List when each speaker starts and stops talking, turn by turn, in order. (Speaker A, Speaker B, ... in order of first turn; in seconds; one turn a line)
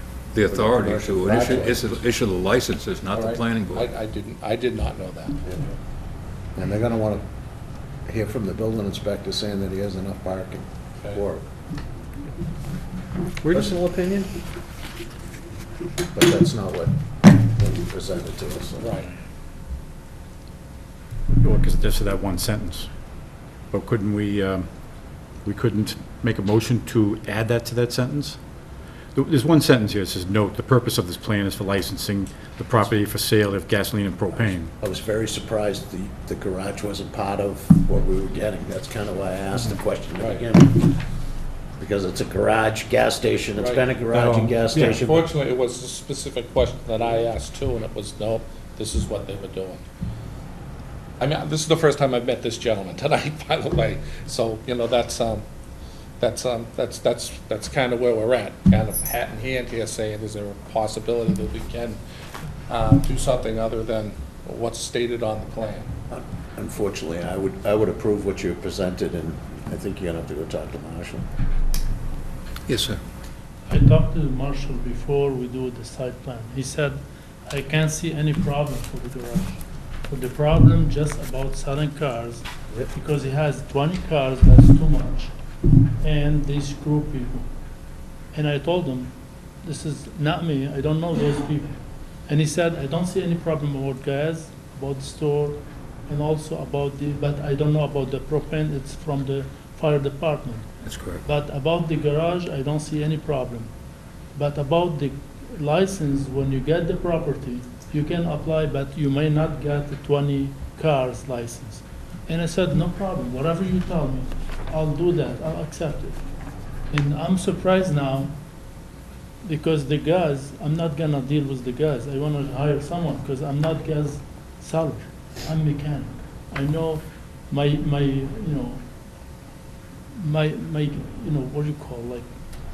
Speaker A: 0.3-4.0
Speaker B: 0.5-1.9
Speaker C: 3.1-5.7
Speaker B: 6.6-7.2
Speaker B: 8.1-11.5
Speaker D: 13.4-13.7
Speaker B: 13.5-14.3
Speaker B: 16.1-18.9
Speaker C: 18.8-19.1
Speaker D: 21.4-22.9
Speaker D: 23.7-24.7
Speaker D: 25.4-28.4
Speaker D: 29.1-34.7
Speaker B: 34.4-41.0
Speaker C: 40.2-40.4
Speaker B: 41.8-45.2
Speaker C: 43.6-43.9
Speaker D: 44.1-45.0
Speaker C: 44.9-49.8
Speaker C: 51.2-55.4
Speaker C: 56.2-62.0
Speaker C: 62.7-65.9
Speaker B: 66.1-71.2
Speaker A: 72.7-73.0
Speaker E: 73.7-85.3
Speaker E: 86.0-87.5
Speaker E: 88.3-100.7
Speaker A: 100.8-101.3
Speaker E: 101.2-103.7
Speaker E: 104.3-116.2
Speaker E: 116.9-118.3
Speaker E: 119.4-128.8
Speaker E: 130.2-132.3